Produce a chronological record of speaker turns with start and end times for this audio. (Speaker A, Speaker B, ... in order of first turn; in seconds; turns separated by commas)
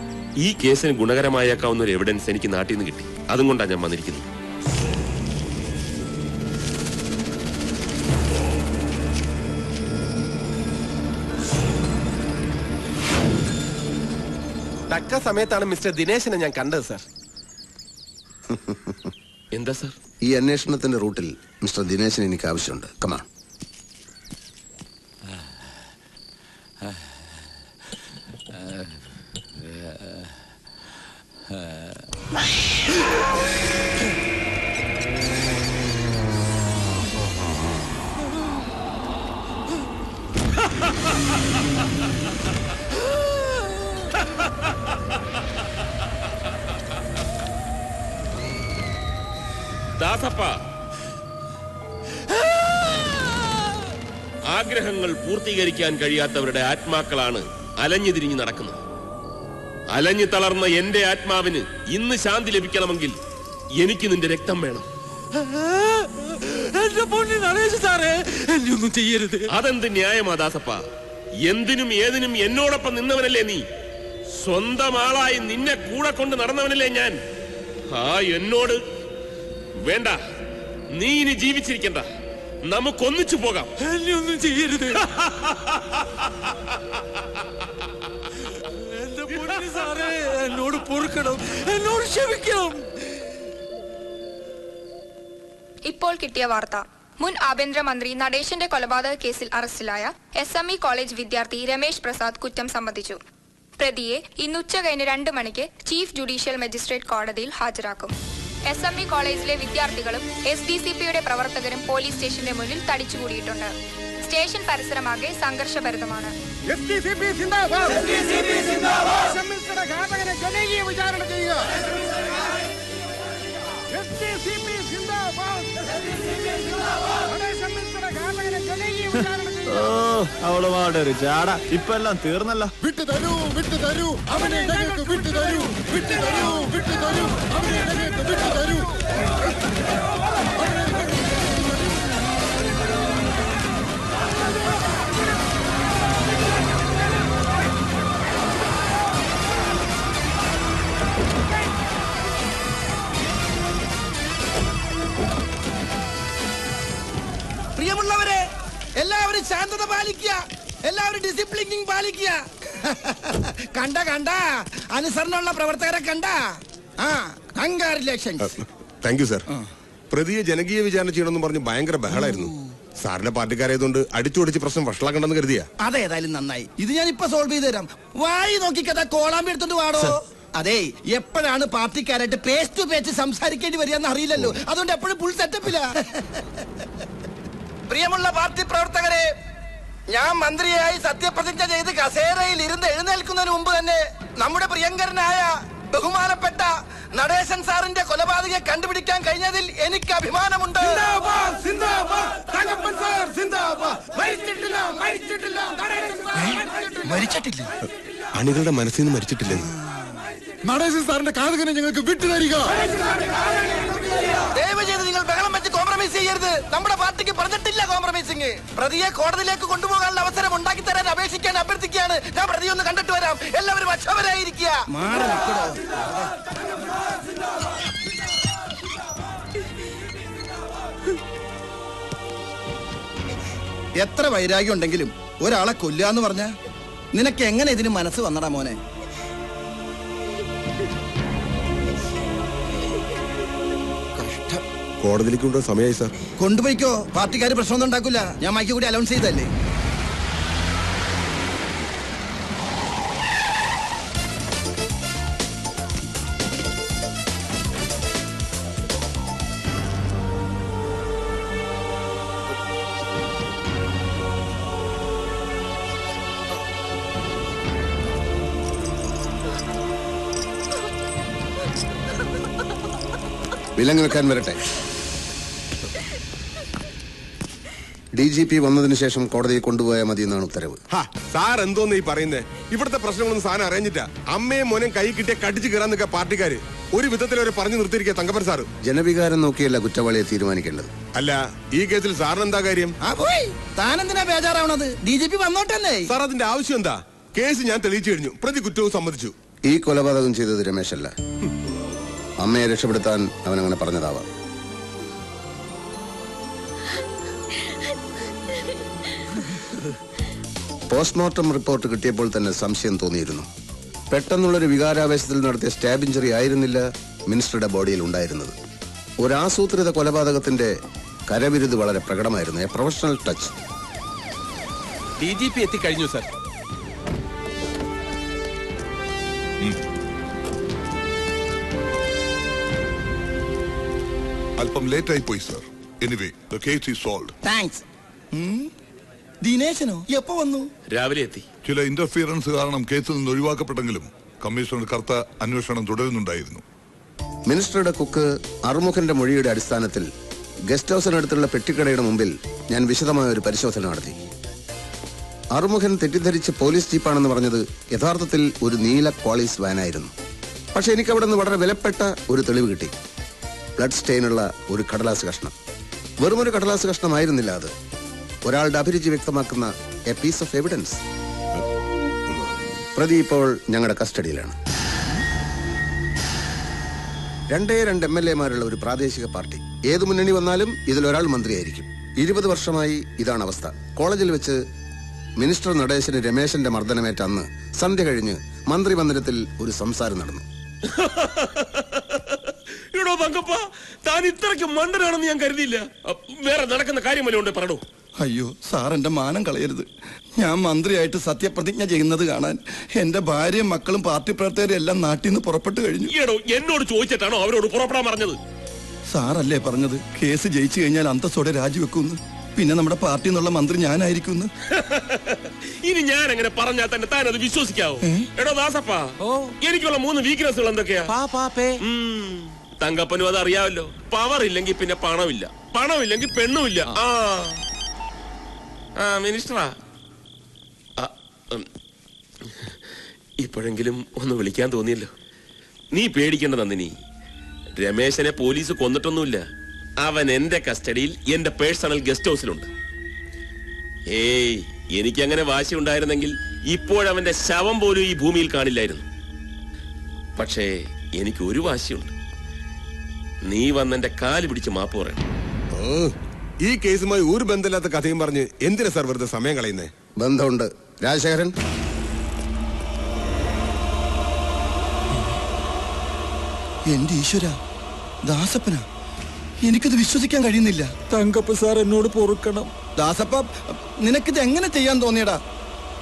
Speaker A: 0.4-4.2, Speaker B: 14.9-17.0, Speaker C: 18.5-19.1, Speaker A: 19.5-19.9, Speaker C: 20.2-23.2, Speaker A: 50.0-50.6, Speaker A: 54.5-58.8, Speaker A: 59.9-63.1, Speaker A: 63.8-64.9, Speaker D: 65.4-69.5, Speaker A: 69.5-70.8, Speaker A: 71.5-73.6, Speaker A: 74.4-77.2, Speaker A: 77.9-78.8, Speaker A: 79.8-80.2, Speaker A: 80.9-82.0, Speaker A: 82.7-83.7, Speaker D: 83.8-85.0, Speaker D: 88.9-92.9, Speaker E: 95.9-103.2, Speaker E: 103.8-108.1, Speaker E: 108.7-113.7, Speaker E: 114.2-116.3, Speaker F: 116.7-121.7, Speaker F: 123.9-125.7, Speaker F: 127.2-129.9, Speaker G: 129.7-132.7, Speaker F: 132.8-138.9, Speaker F: 140.6-141.1, Speaker H: 157.8-158.4, Speaker H: 159.0-168.5, Speaker I: 169.0-169.4, Speaker I: 170.1-175.7, Speaker H: 175.8-186.2, Speaker H: 187.9-189.3, Speaker H: 190.1-201.1, Speaker F: 201.2-203.5, Speaker F: 204.2-206.2, Speaker H: 206.4-207.7, Speaker I: 208.3-209.6, Speaker F: 210.6-212.8, Speaker H: 214.5-225.9, Speaker H: 234.0-236.5, Speaker H: 237.1-238.8, Speaker H: 244.2-244.6, Speaker I: 245.0-246.1, Speaker H: 246.4-249.5, Speaker C: 273.8-274.6, Speaker C: 278.1-280.8, Speaker I: 280.9-288.7, Speaker C: 288.8-290.9, Speaker I: 291.1-292.9, Speaker H: 293.0-296.1, Speaker I: 296.1-299.3, Speaker C: 299.6-301.1, Speaker C: 302.4-304.3, Speaker C: 310.9-313.5, Speaker C: 314.1-318.6, Speaker C: 319.2-320.8, Speaker C: 321.3-323.6, Speaker B: 325.2-326.3, Speaker J: 334.6-337.4, Speaker H: 337.4-338.7, Speaker H: 339.4-340.7, Speaker A: 340.9-341.4, Speaker J: 341.6-346.6, Speaker C: 347.5-350.1, Speaker C: 350.7-354.2, Speaker C: 355.5-360.1, Speaker C: 360.7-362.9, Speaker C: 363.8-365.6, Speaker C: 366.2-367.7, Speaker C: 368.4-371.0, Speaker C: 372.3-374.6, Speaker C: 377.5-384.6, Speaker C: 385.4-390.4, Speaker A: 390.9-392.4, Speaker A: 392.9-397.8, Speaker H: 398.2-399.9, Speaker H: 400.4-406.1, Speaker A: 406.1-408.4, Speaker H: 409.1-414.5, Speaker A: 414.7-421.1, Speaker D: 421.1-421.7, Speaker A: 421.8-427.6, Speaker A: 429.0-429.7, Speaker A: 431.0-431.7, Speaker A: 432.4-432.7, Speaker A: 433.4-435.1, Speaker A: 435.9-436.9, Speaker A: 437.8-439.4, Speaker A: 440.0-442.7, Speaker A: 444.1-449.0, Speaker A: 450.4-452.1, Speaker A: 453.4-455.2, Speaker I: 455.7-459.9, Speaker C: 460.2-461.5, Speaker H: 466.9-467.6, Speaker H: 468.2-468.9, Speaker H: 469.6-470.9, Speaker F: 471.1-472.7, Speaker H: 473.0-475.4